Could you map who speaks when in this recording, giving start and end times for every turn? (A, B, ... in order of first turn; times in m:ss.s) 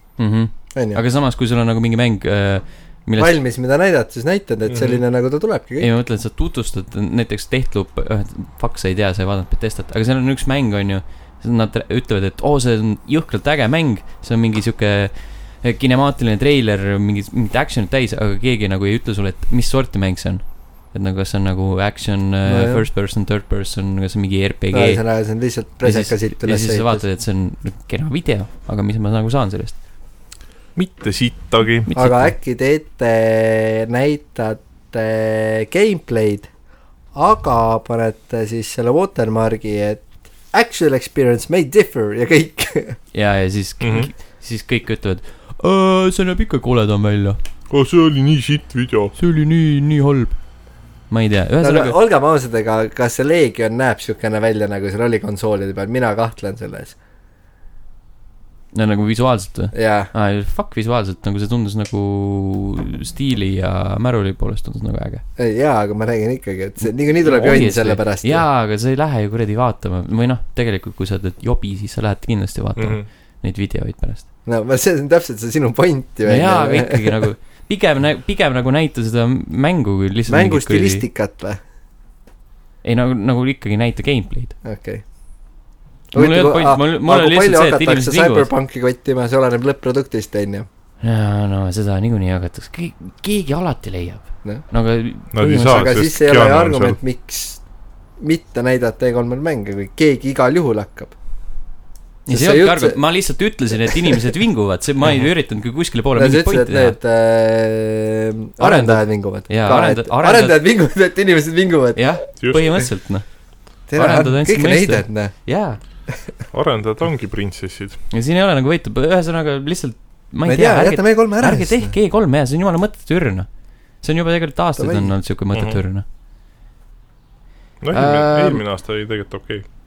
0:00.2-0:03.4 A
0:00.7-0:01.0 B
0:03.2-0:05.9 B
0:04.7-0:05.0 C
0:05.8-0:25.3 A
0:22.4-0:22.9 B
0:24.7-0:27.0 B
0:25.8-0:29.8 A
0:30.7-0:31.9 C
0:31.9-0:32.3 A
0:31.9-0:36.5 B
0:37.1-0:43.0 B
0:43.1-0:47.4 A
0:43.8-0:44.1 C
0:47.7-0:49.1 C
0:49.1-0:50.5 A
0:51.1-0:52.0 A
0:51.6-0:57.0 B
0:58.7-1:05.2 A
0:59.7-1:00.1 B
1:05.4-1:08.4 B
1:06.8-1:14.3 A
1:12.8-1:13.1 C
1:14.4-1:17.2 B
1:16.2-1:21.0 A
1:20.3-1:21.6 B
1:22.8-1:24.6 A
1:24.6-1:25.2 B
1:26.1-1:30.7 B
1:26.1-1:28.5 A
1:31.0-1:35.9 A
1:35.3-1:37.0 C
1:35.6-1:37.6 B
1:38.2-1:41.1 B
1:42.3-1:43.1 B
1:42.3-1:47.0 A
1:46.1-1:52.2 B
1:48.6-1:50.6 A
1:51.9-1:55.8 A
1:52.4-1:52.8 C
1:53.9-1:56.3 B
1:56.5-1:58.0 C
1:58.1-2:06.0 A
2:00.4-2:02.0 B
2:04.8-2:05.2 B
2:05.5-2:05.8 C
2:07.8-2:09.6 C
2:07.9-2:08.6 A